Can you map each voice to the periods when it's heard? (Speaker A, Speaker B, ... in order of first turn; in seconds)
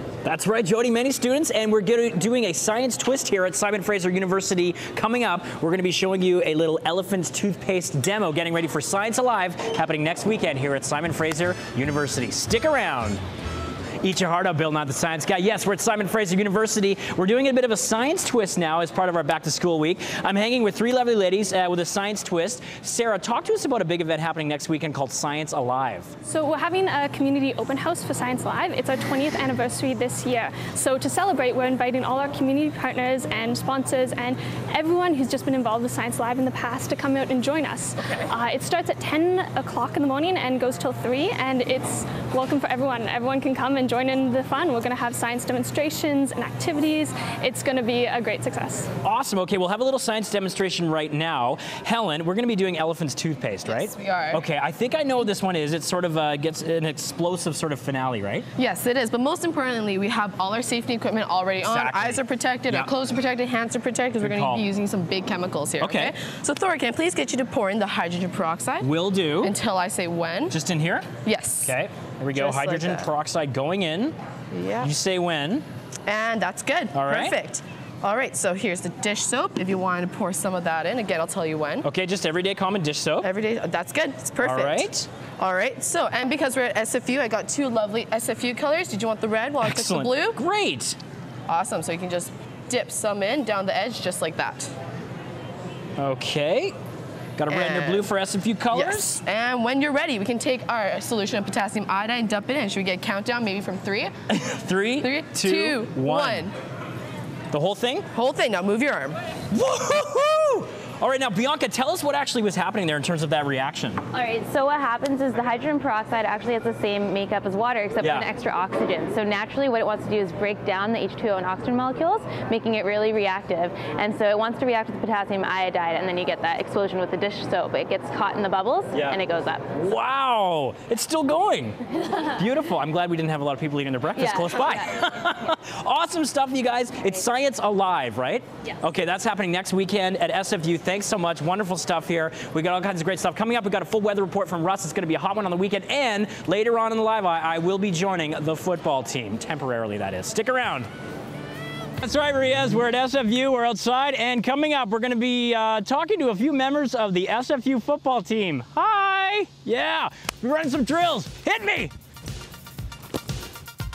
Speaker A: 0.2-13.2, 14.0-26.1, 49.0-58.5, 61.6-62.9, 64.2-64.7, 65.8-66.1, 68.8-69.5, 70.5-71.1, 71.6-74.1, 74.8-75.6, 76.9-77.3, 81.8-83.3, 84.4-85.0, 89.6-91.0, 96.0-96.7, 97.4-99.2, 104.3-106.5, 107.5-108.0, 109.5-114.0, 118.0-118.3, 128.9-129.2, 129.7-150.9, 152.0-161.9
Speaker B: 26.2-48.9
Speaker C: 53.6-54.5, 58.6-70.5, 71.2-71.7, 72.3-73.1, 74.5-74.9, 76.1-81.8, 83.2-90.4, 91.5-94.7, 97.5-98.1, 98.7-104.1, 105.0-106.5, 108.1-109.2
Speaker D: 114.1-129.7, 134.2-134.9